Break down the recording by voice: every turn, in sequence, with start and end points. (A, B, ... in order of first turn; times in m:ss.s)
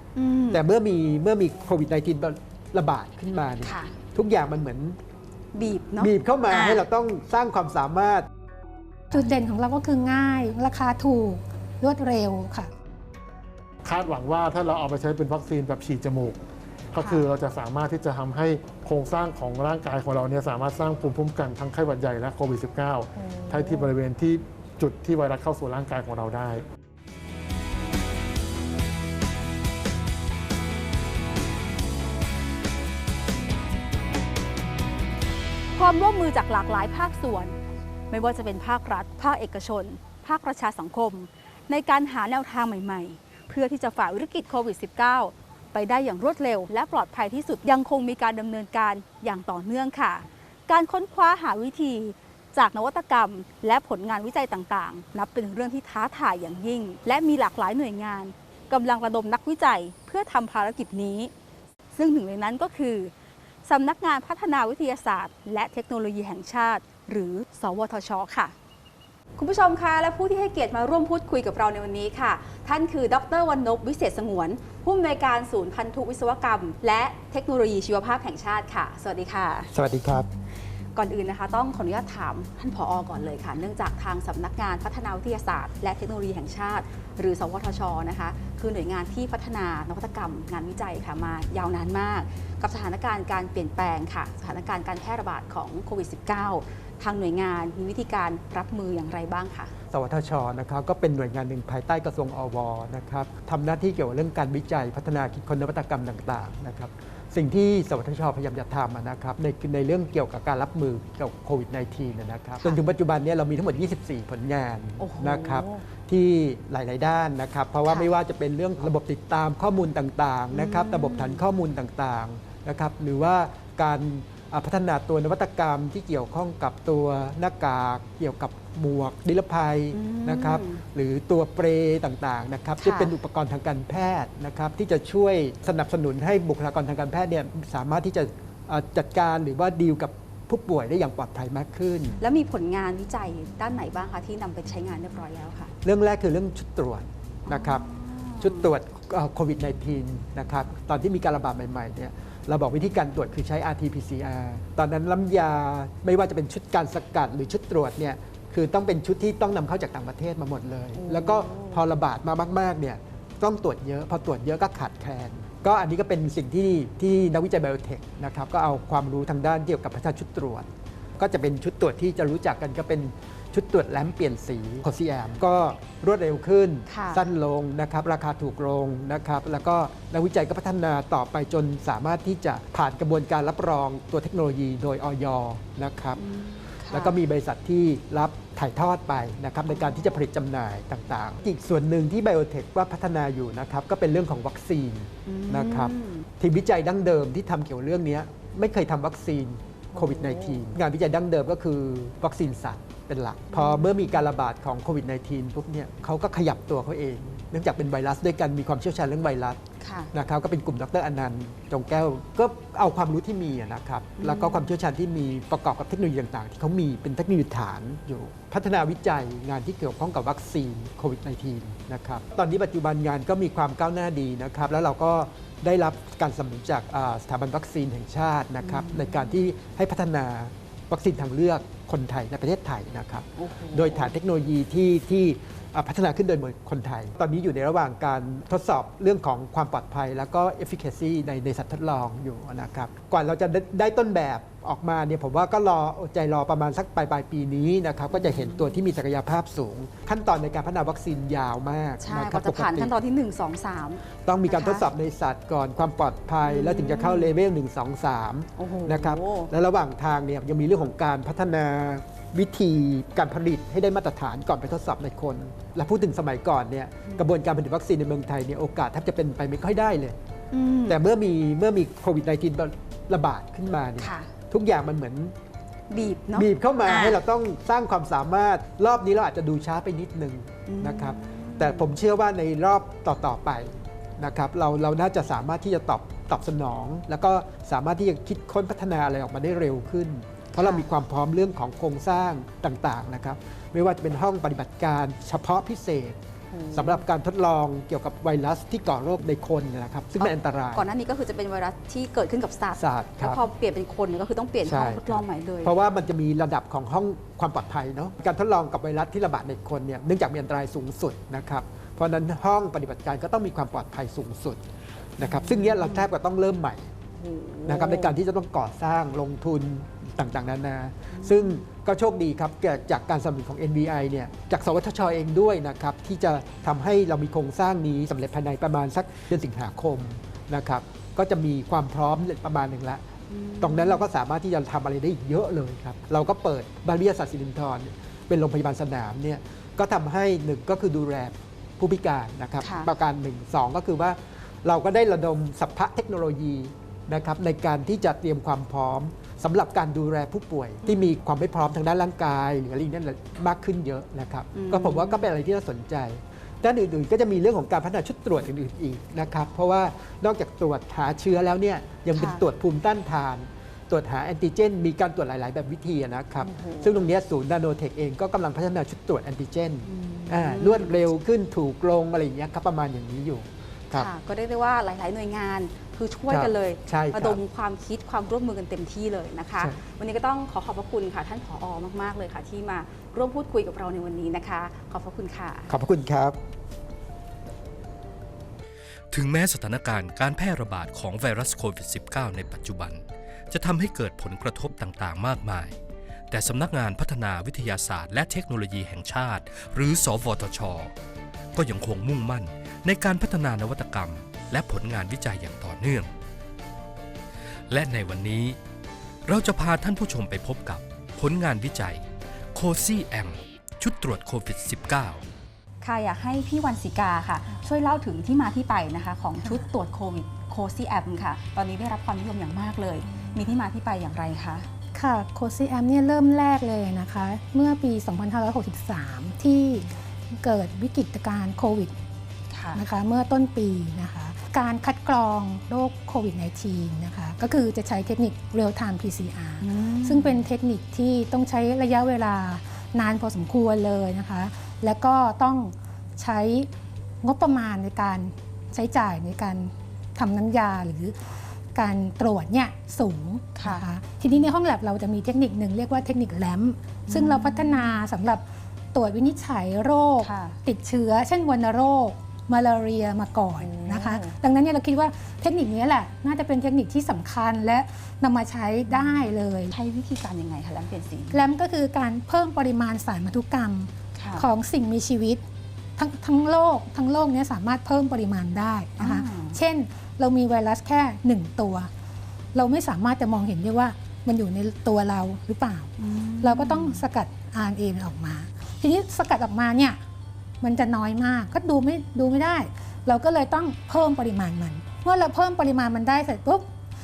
0:00.2-0:00.6 A
0:00.5-0:05.0 B
0:03.6-0:04.0 A
0:05.5-0:06.8 A
0:06.0-0:08.3 B
0:09.1-0:12.7 C
0:13.8-0:16.4 D
0:16.9-0:26.6 D
0:23.2-0:23.9 A
0:35.8-0:37.6 A
0:38.1-1:01.3 A
1:01.9-1:03.1 A
1:03.6-1:08.5 A
1:09.4-1:19.7 A
1:19.7-1:20.3 B
1:21.0-1:39.7 A
1:39.9-2:22.2 B
1:55.0-1:55.8 A
1:57.9-1:58.1 A
2:00.5-2:01.4 A
2:09.9-2:10.8 A
2:12.8-2:13.2 A
2:22.2-2:25.7 A
2:25.8-2:27.9 B
2:27.5-2:28.7 A
2:28.4-2:50.7 B
2:41.0-2:41.8 A
2:51.2-3:06.2 B
2:56.9-2:57.2 A
3:06.2-3:07.2 A
3:06.9-3:29.6 B
3:09.7-3:10.1 A
3:15.3-3:16.3 A
3:20.0-3:20.6 A
3:23.5-3:24.0 A
3:29.8-3:30.1 A
3:30.1-4:12.9 B
3:34.2-3:34.7 A
3:48.6-3:49.4 A
3:53.4-3:54.2 A
4:08.1-4:08.8 A
4:12.0-4:14.9 A
4:14.2-4:30.2 B
4:16.4-4:17.4 A
4:18.6-4:19.5 A
4:30.5-4:31.0 A
4:30.9-4:35.3 B
4:34.0-4:34.3 A
4:35.9-4:37.2 A
4:36.3-4:56.2 B
4:40.7-4:41.9 A
4:50.6-4:50.8 A
4:56.5-4:57.0 A
4:56.7-5:00.9 B
5:00.2-5:05.7 A
5:02.8-5:03.4 B
5:04.6-5:14.6 B
5:15.2-5:16.9 B
5:15.2-5:16.1 A
5:17.2-5:18.2 A
5:17.6-5:33.0 B
5:21.1-5:21.6 A
5:33.3-5:34.1 A
5:33.6-6:14.1 B
5:42.6-5:42.9 A
5:50.8-5:51.1 A
5:54.5-5:55.3 A
6:02.1-6:02.4 A
6:06.4-6:07.1 A
6:09.9-6:11.0 A
6:13.9-6:25.7 A
6:16.3-6:17.4 B
6:25.7-6:26.4 B
6:29.1-6:35.8 E
6:36.3-6:40.9 E
6:41.6-6:46.1 E
6:47.7-6:48.6 E
6:49.3-6:52.0 E
6:52.6-6:55.2 E
6:55.8-7:04.7 A
6:59.4-6:59.7 C
7:05.0-7:11.9 C
7:12.5-7:12.8 A
7:12.7-7:26.7 C
7:19.6-7:20.4 A
7:27.2-7:31.2 C
7:31.7-7:49.8 C
7:33.6-7:34.5 A
7:37.1-7:38.0 A
7:40.2-7:40.6 A
7:43.6-7:44.4 A
7:48.9-7:51.5 A
7:51.3-7:55.4 C
7:54.2-7:54.4 A
7:56.0-8:01.9 C
7:59.0-7:59.6 A
8:02.5-8:10.0 C
8:06.0-8:07.0 A
8:10.6-8:16.7 C